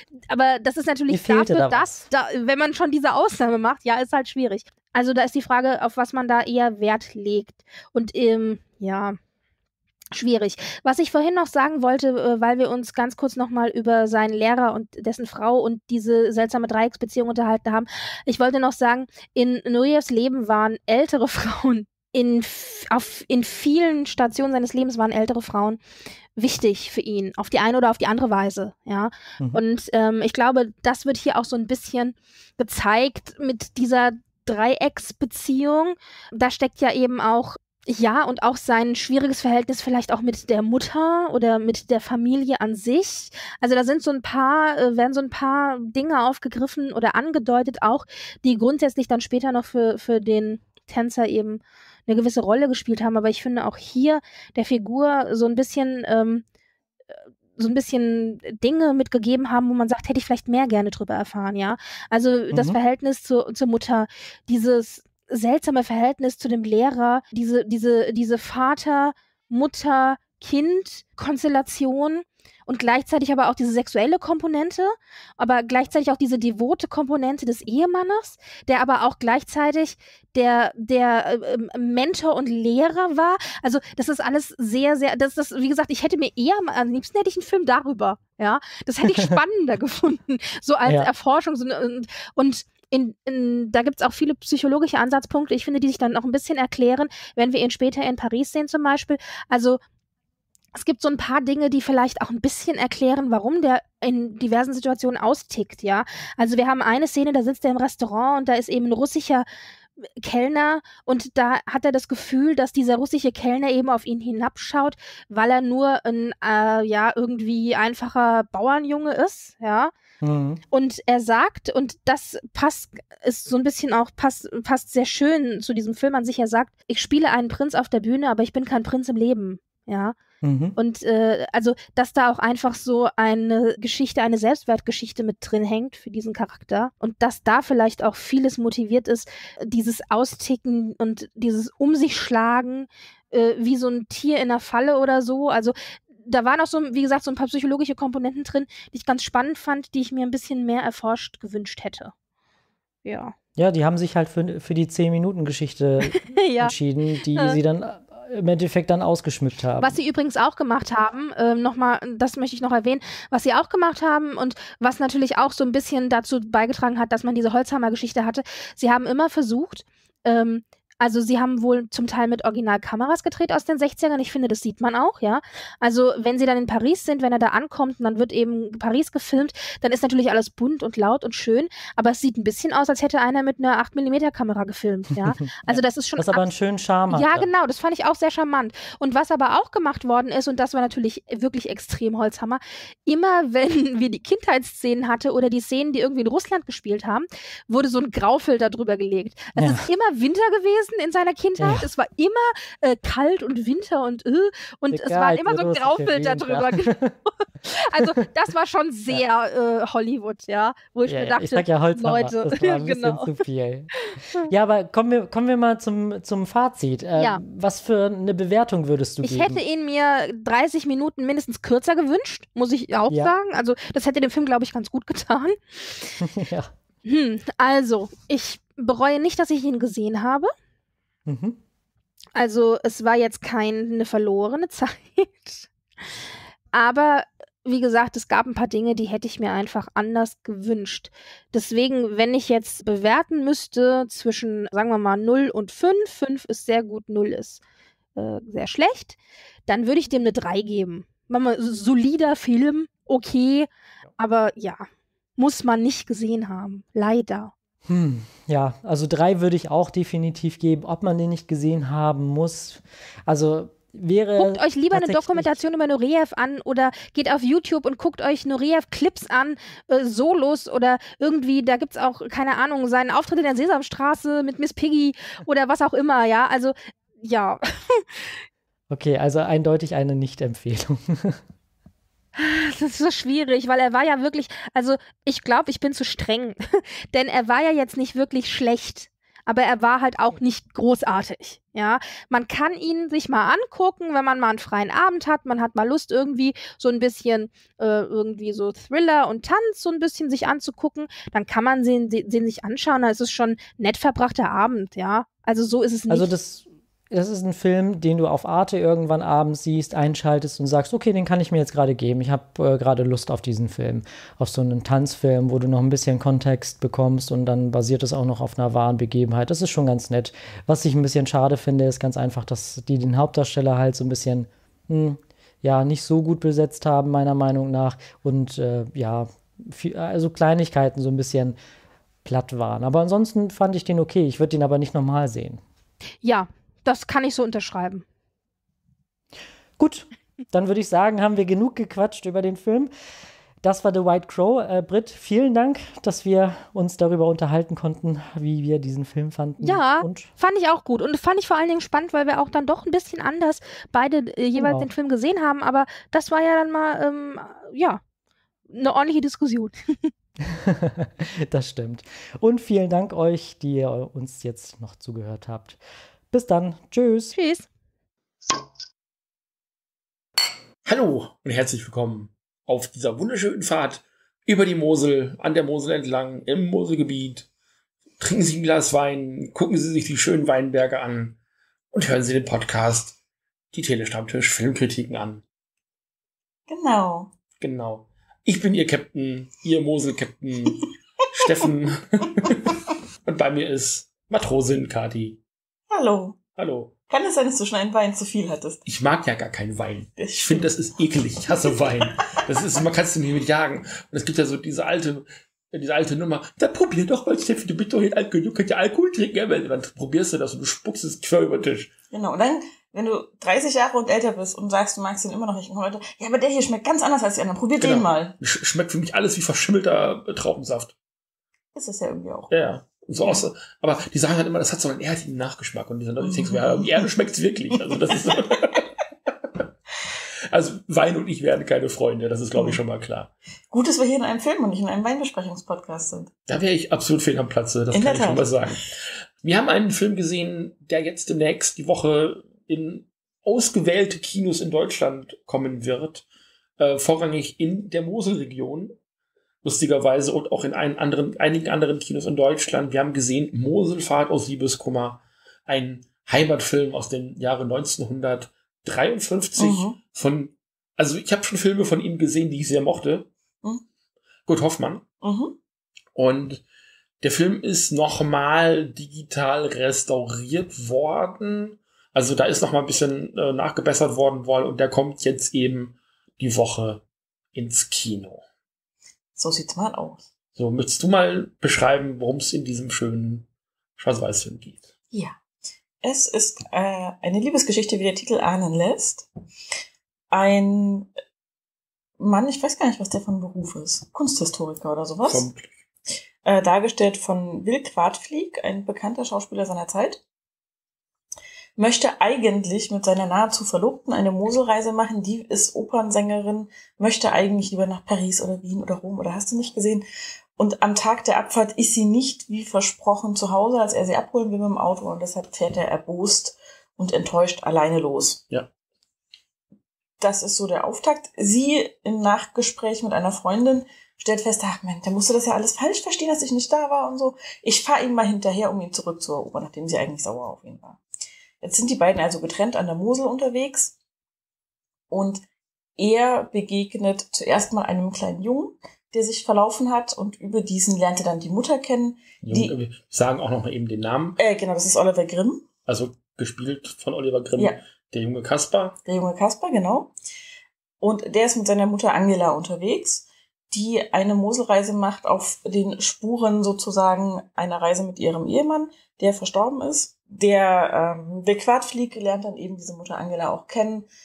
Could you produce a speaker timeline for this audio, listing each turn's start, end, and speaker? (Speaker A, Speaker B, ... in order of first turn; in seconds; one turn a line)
Speaker A: 0.3-9.2
Speaker B: 1.1-1.9
Speaker A: 10.1-25.8
Speaker A: 26.4-56.4
Speaker A: 57.6-99.8
Speaker B: 62.5-62.8
Speaker B: 89.1-89.4
Speaker A: 100.7-109.4
Speaker A: 110.2-119.9
Speaker B: 120.2-120.6
Speaker A: 120.7-130.2
Speaker B: 130.4-130.8
Speaker A: 130.8-152.1
Speaker A: 153.0-153.3
Speaker B: 153.6-160.0
Speaker A: 156.0-156.7
Speaker A: 159.8-186.5
Speaker B: 185.2-187.5
Speaker A: 187.1-213.3
Speaker B: 199.6-199.9
Speaker B: 201.6-201.8
Speaker B: 204.9-207.2
Speaker B: 211.1-219.6
Speaker A: 214.0-214.5
Speaker A: 219.2-226.1
Speaker B: 226.2-226.7
Speaker A: 227.0-230.5
Speaker B: 231.3-231.6
Speaker A: 232.3-235.7
Speaker A: 236.7-247.6
Speaker A: 248.2-249.2
Speaker A: 249.7-257.5
Speaker B: 257.9-265.6
Speaker A: 264.4-278.3
Speaker B: 278.9-281.4
Speaker A: 282.4-306.3
Speaker B: 306.1-331.6
Speaker B: 332.2-335.6
Speaker A: 336.2-338.0
Speaker B: 339.8-342.9
Speaker B: 343.6-350.3
Speaker A: 349.6-358.0
Speaker B: 354.6-354.9
Speaker A: 358.7-360.1
Speaker B: 360.4-365.8
Speaker B: 366.3-367.3
Speaker A: 367.3-367.7
Speaker C: 370.8-377.5
Speaker C: 378.2-381.4
Speaker C: 381.9-383.1
Speaker C: 383.7-385.4
Speaker D: 386.7-387.3
Speaker C: 387.6-395.4
Speaker D: 395.9-396.4
Speaker C: 396.6-396.9
Speaker D: 397.1-398.8
Speaker C: 398.9-411.9
Speaker D: 400.2-400.7
Speaker D: 401.4-402.6
Speaker D: 412.1-418.3
Speaker C: 417.8-420.9
Speaker D: 421.7-422.5
Speaker C: 422.5-428.9
Speaker D: 426.2-427.1
Speaker D: 428.2-428.7
Speaker C: 430.5-433.3
Speaker D: 432.6-432.8
Speaker D: 433.7-436.3
Speaker C: 436.5-438.9
Speaker D: 437.9-438.7
Speaker C: 439.4-446.2
Speaker C: 446.8-448.9
Speaker C: 449.6-463.3
Speaker D: 459.6-460.0
Speaker C: 464.5-465.1
Speaker D: 465.2-465.6
Speaker C: 466.1-466.6
Speaker C: 467.2-477.0
Speaker C: 477.5-478.4
Speaker D: 479.4-480.2
Speaker C: 480.6-483.5
Speaker C: 484.0-484.9
Speaker D: 486.0-489.3
Speaker D: 490.3-491.1
Speaker D: 492.2-495.5
Speaker C: 495.2-495.7
Speaker D: 496.4-500.2
Speaker D: 501.8-510.0
Speaker D: 510.6-518.4
Speaker D: 520.2-531.0
Speaker D: 531.6-533.9
Speaker D: 535.1-535.4
Speaker D: 536.0-542.7
Speaker C: 542.4-544.4
Speaker D: 544.4-545.6
Speaker C: 545.9-549.0
Speaker D: 549.0-550.1
Speaker D: 551.0-564.1